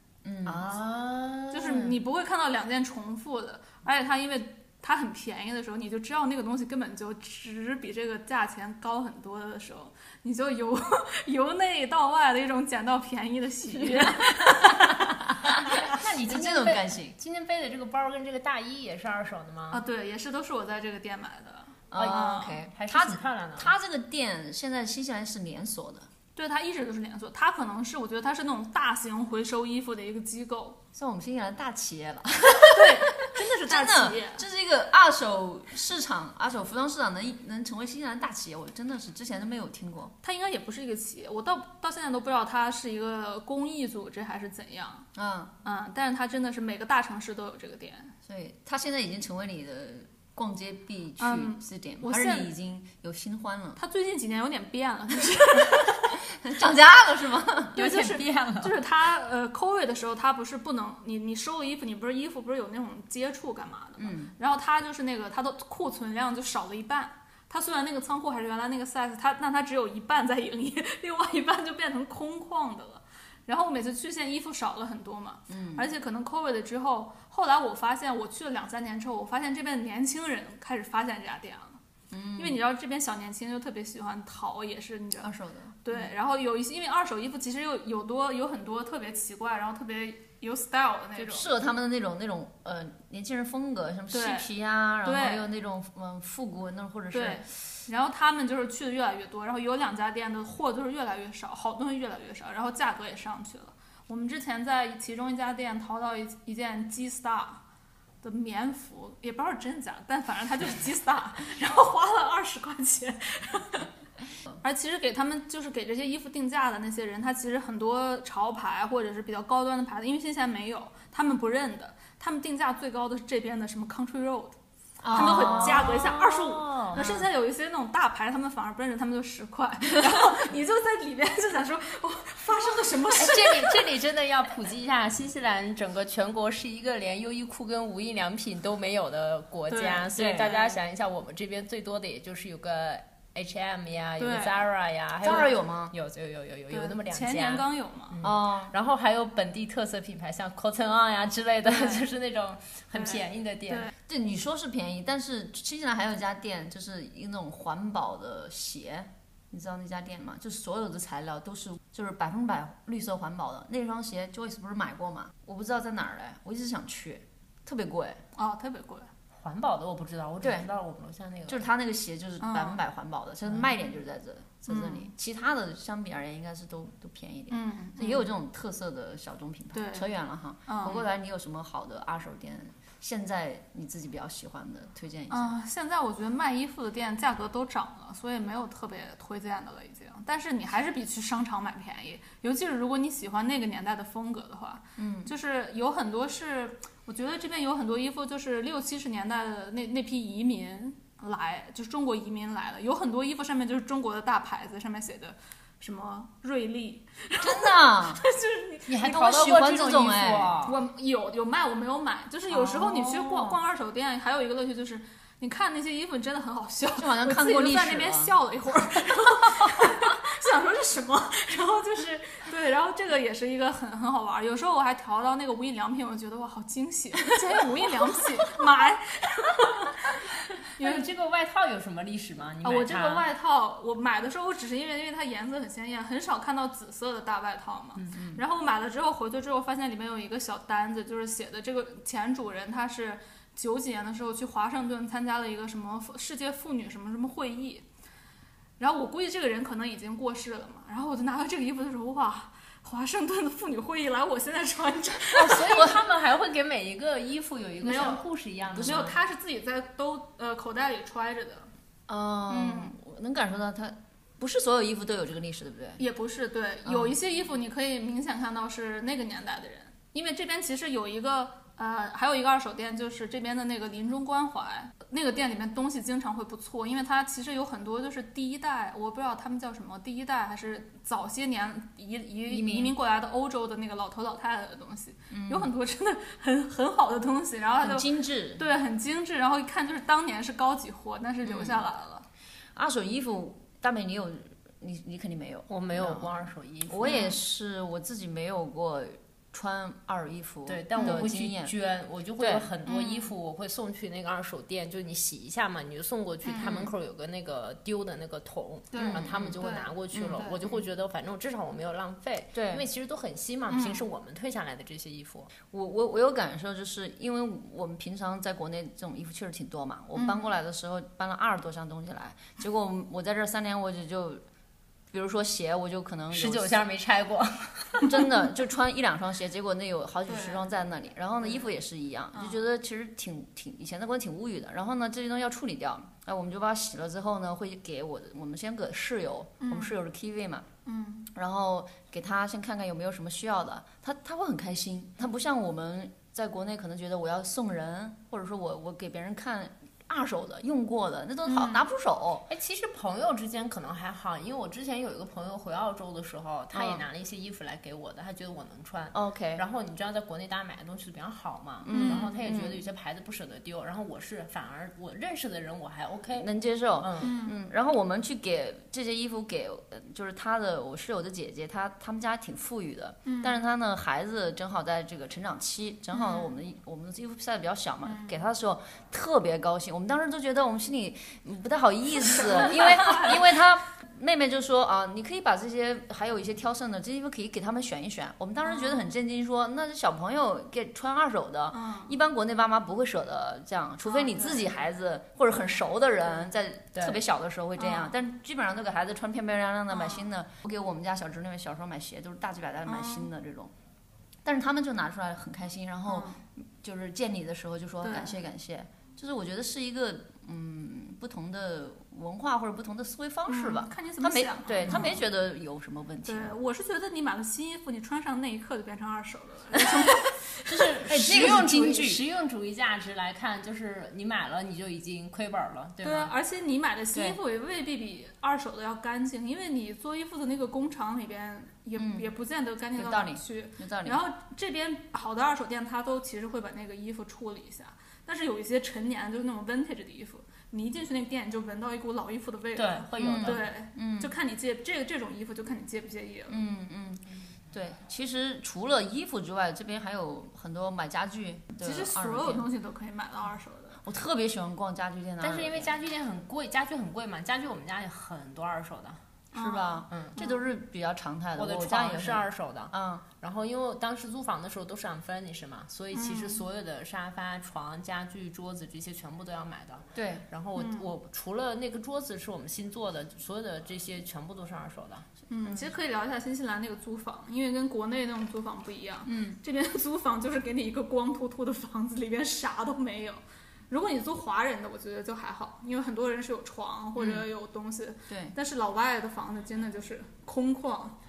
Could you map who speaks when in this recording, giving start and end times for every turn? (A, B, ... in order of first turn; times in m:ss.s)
0:00.2-0:00.8 A
0:00.4-0:01.8 B
0:01.5-0:15.1 C
0:13.9-0:17.1 A
0:15.6-0:15.9 C
0:15.8-0:19.8 B
0:19.7-0:22.6 C
0:21.9-0:26.1 A
0:21.9-0:23.7 B
0:26.4-0:30.8 C
0:30.9-0:40.1 A
0:32.7-0:34.4 C
0:40.2-0:45.1 C
0:45.1-0:45.5 A
0:45.6-0:48.1 C
0:48.2-0:53.8 A
0:51.2-0:52.5 C
0:53.8-0:56.2 C
0:55.8-0:57.8 A
0:57.7-0:58.8 B
0:57.7-1:21.8 C
1:04.0-1:04.3 A
1:15.5-1:15.8 A
1:22.1-1:22.6 A
1:22.4-1:31.5 C
1:25.2-1:26.1 A
1:31.2-1:37.5 A
1:34.1-1:34.5 C
1:35.0-1:35.4 C
1:37.1-1:47.6 C
1:48.2-1:53.9 C
1:54.6-2:04.6 C
2:05.0-2:06.1 A
2:05.1-2:07.0 B
2:05.1-2:13.9 C
2:06.9-2:07.2 A
2:13.1-2:33.9 B
2:19.7-2:20.7 C
2:20.1-2:20.6 A
2:24.2-2:24.6 C
2:25.2-2:25.9 A
2:26.7-2:28.2 C
2:28.2-2:28.7 A
2:31.6-2:32.0 C
2:32.9-2:33.9 C
2:34.1-2:48.2 A
2:48.4-2:49.1 C
2:49.4-2:51.6 B
2:50.4-2:50.7 A
2:51.5-3:05.5 A
2:52.4-2:52.8 C
2:54.7-2:55.1 C
2:57.5-2:58.3 C
2:59.7-3:00.1 C
3:00.6-3:01.1 C
3:05.3-3:29.2 C
3:15.0-3:15.3 A
3:27.4-3:28.2 A
3:28.9-3:30.8 B
3:29.0-3:30.6 A
3:30.6-3:50.2 C
3:32.5-3:33.6 A
3:37.0-3:38.3 A
3:39.4-3:40.0 A
3:50.8-3:51.0 C
3:50.8-3:53.2 B
3:52.6-4:07.8 C
4:08.8-4:15.9 C
4:15.3-4:19.1 B
4:15.6-4:15.9 A
4:17.8-4:18.2 C
4:18.7-4:21.7 C
4:18.8-4:19.0 A
4:22.1-4:26.0 A
4:22.5-4:23.0 C
4:26.0-4:52.2 C
4:26.8-4:27.2 A
4:42.5-4:42.9 A
4:45.3-4:45.7 A
4:47.8-4:48.6 A
4:51.4-4:51.8 A
4:52.7-4:56.3 A
4:55.7-4:57.3 B
4:56.9-5:01.7 A
4:57.0-4:57.4 C
5:00.7-5:15.5 B
5:01.0-5:01.3 C
5:02.4-5:02.7 A
5:02.8-5:03.3 C
5:06.4-5:06.7 C
5:06.6-5:06.9 A
5:08.9-5:10.6 C
5:09.0-5:10.7 A
5:12.5-5:12.8 A
5:13.7-5:14.0 C
5:15.7-5:24.4 A
5:20.1-5:20.5 C
5:25.1-5:26.8 A
5:26.3-5:28.3 B
5:28.0-5:40.7 A
5:30.3-5:30.6 C
5:32.3-5:32.6 C
5:39.6-5:39.9 C
5:40.8-5:41.3 C
5:41.3-5:52.5 A
5:51.4-5:51.8 C
5:52.5-6:06.5 B
5:56.7-5:57.0 A
5:59.1-5:59.6 A
6:01.8-6:02.8 A
6:01.9-6:02.3 C
6:06.3-6:43.7 A
6:07.0-6:07.3 B
6:07.2-6:07.5 C
6:13.2-6:13.6 C
6:16.1-6:16.5 C
6:18.0-6:18.4 C
6:22.3-6:23.4 C
6:28.6-6:29.0 C
6:31.7-6:32.1 C
6:34.0-6:34.6 C
6:36.9-6:37.2 B
6:37.8-6:38.1 C
6:39.9-6:40.3 C
6:42.8-6:43.3 C
6:44.4-6:56.5 A
6:46.1-6:46.4 C
6:48.0-6:48.4 C
6:53.5-6:55.2 C
6:54.8-6:55.1 B
6:56.2-7:00.7 C
7:00.7-7:06.3 B
7:01.0-7:02.2 A
7:06.0-7:26.6 C
7:07.1-7:07.4 A
7:12.0-7:12.3 A
7:12.9-7:14.2 A
7:22.8-7:23.6 B
7:23.2-7:24.3 A
7:26.5-7:32.6 A
7:31.8-7:34.0 C
7:34.0-7:35.9 A
7:35.4-7:39.2 B
7:39.5-7:40.6 C
7:39.5-7:43.2 A
7:40.1-7:40.4 B
7:41.6-7:55.3 B
7:46.1-7:46.6 C
7:50.1-7:50.4 A
7:50.8-7:51.1 C
7:55.5-8:11.2 C
7:59.2-7:59.6 A
8:07.2-8:07.5 A
8:08.3-8:08.5 A